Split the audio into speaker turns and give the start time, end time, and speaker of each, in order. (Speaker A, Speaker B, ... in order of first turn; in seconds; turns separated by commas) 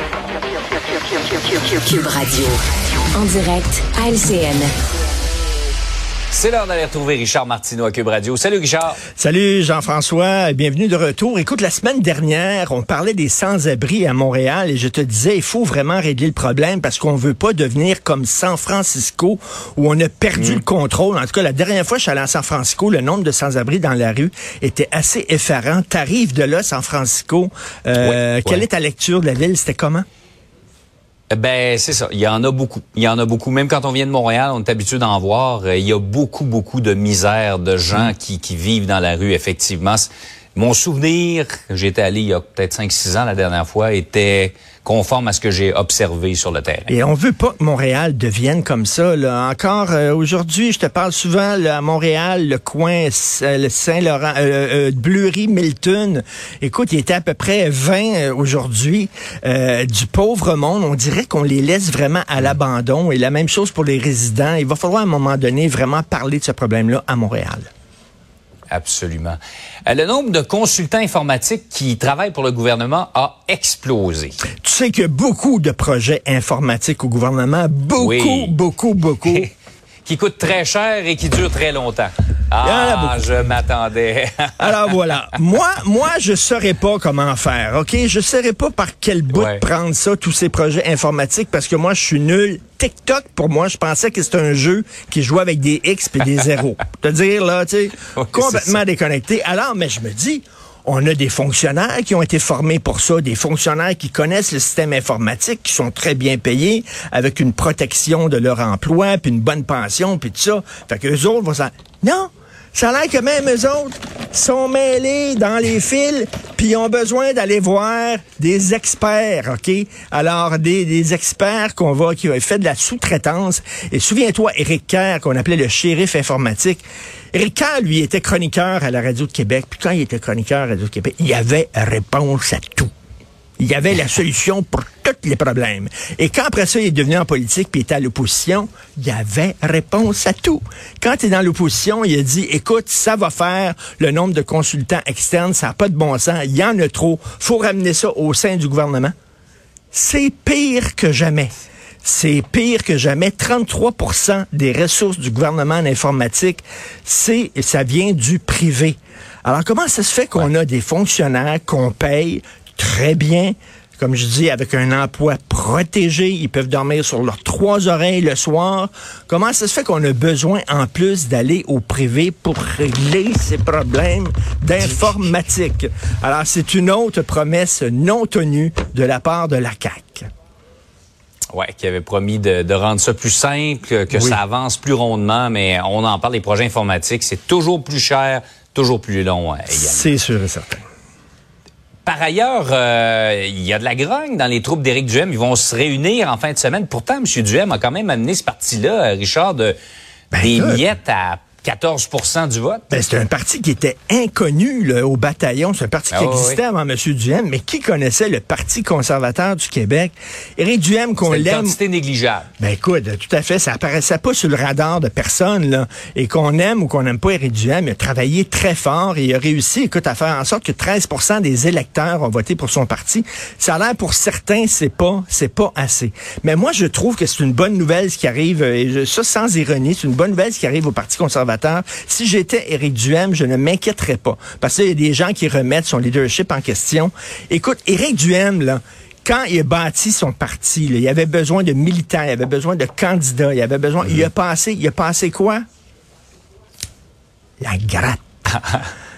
Speaker A: 1.2-2.6, Speaker A: 3.1-4.7, Speaker B: 6.3-9.0, Speaker C: 9.2-30.1, Speaker B: 20.4-20.6, Speaker B: 28.0-28.7, Speaker B: 31.3-47.0, Speaker C: 46.9-67.7, Speaker B: 68.7-74.4, Speaker C: 74.6-79.5, Speaker B: 78.0-78.6, Speaker B: 80.0-85.0, Speaker C: 82.6-83.3, Speaker C: 84.6-132.9, Speaker B: 89.3-89.7, Speaker B: 98.1-98.8, Speaker C: 133.6-149.1, Speaker C: 149.9-151.5, Speaker C: 152.0-180.2, Speaker B: 181.5-190.1, Speaker C: 184.1-184.4, Speaker C: 189.7-190.8, Speaker B: 192.1-199.8, Speaker C: 200.3-200.9, Speaker B: 200.4-202.8, Speaker C: 202.9-211.8, Speaker B: 206.1-206.6, Speaker B: 211.2-212.5, Speaker C: 212.6-245.6, Speaker C: 247.6-248.2, Speaker B: 248.5-248.9